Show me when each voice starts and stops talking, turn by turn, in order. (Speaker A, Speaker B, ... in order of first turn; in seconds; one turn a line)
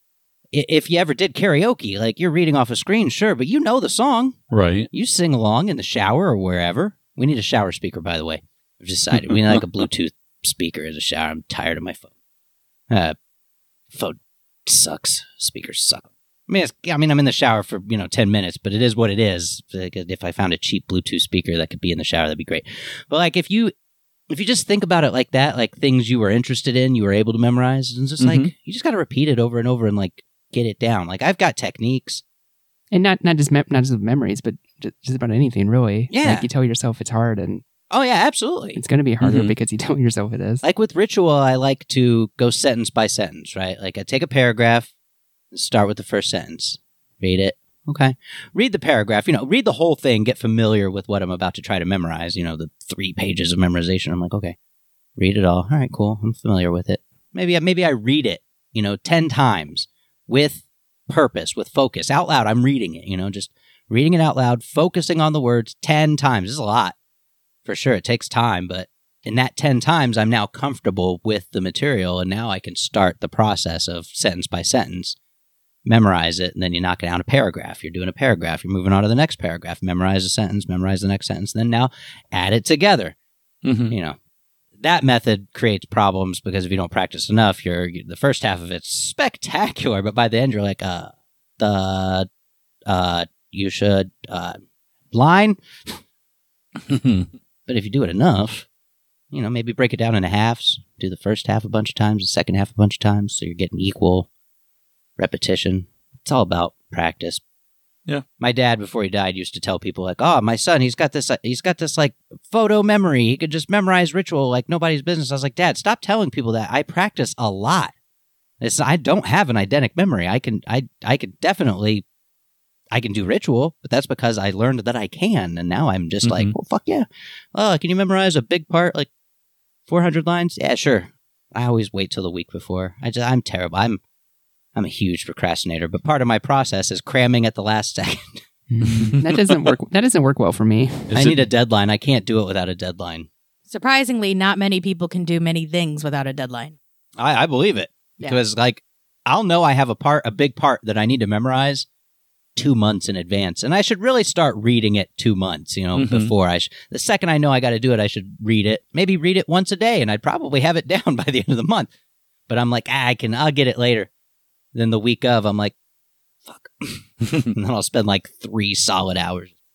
Speaker A: 0.5-4.4
Speaker B: 4.5-4.9
Speaker A: 4.9-12.1
Speaker B: 9.1-9.6
Speaker A: 12.9-13.2
Speaker A: 13.9-23.7
Speaker A: 24.3-32.2
Speaker B: 28.2-28.5
Speaker C: 32.9-37.6
Speaker A: 36.1-36.5
Speaker A: 37.9-38.8
Speaker C: 38.7-40.6
Speaker B: 39.2-39.5
Speaker A: 40.6-44.9
Speaker A: 45.5-54.5
Speaker A: 55.2-66.9
Speaker A: 67.7-75.2
Speaker A: 75.8-83.1
Speaker B: 83.6-83.9
Speaker A: 83.9-84.2
Speaker A: 84.8-92.3
Speaker A: 92.9-96.0
Speaker B: 96.9-97.3
Speaker A: 97.7-98.7
Speaker A: 99.3-104.3
Speaker A: 105.2-107.4
Speaker A: 108.4-117.9
Speaker A: 118.6-122.0
Speaker A: 122.9-129.1
Speaker B: 126.2-126.5
Speaker A: 129.9-134.0
Speaker A: 134.7-138.4
Speaker C: 138.7-141.1
Speaker B: 138.8-139.3
Speaker B: 141.1-141.4
Speaker A: 141.1-143.3
Speaker D: 143.7-146.8
Speaker A: 147.2-151.8
Speaker A: 152.6-161.9
Speaker B: 155.9-156.3
Speaker A: 162.5-164.1
Speaker A: 164.7-165.7
Speaker A: 166.4-169.5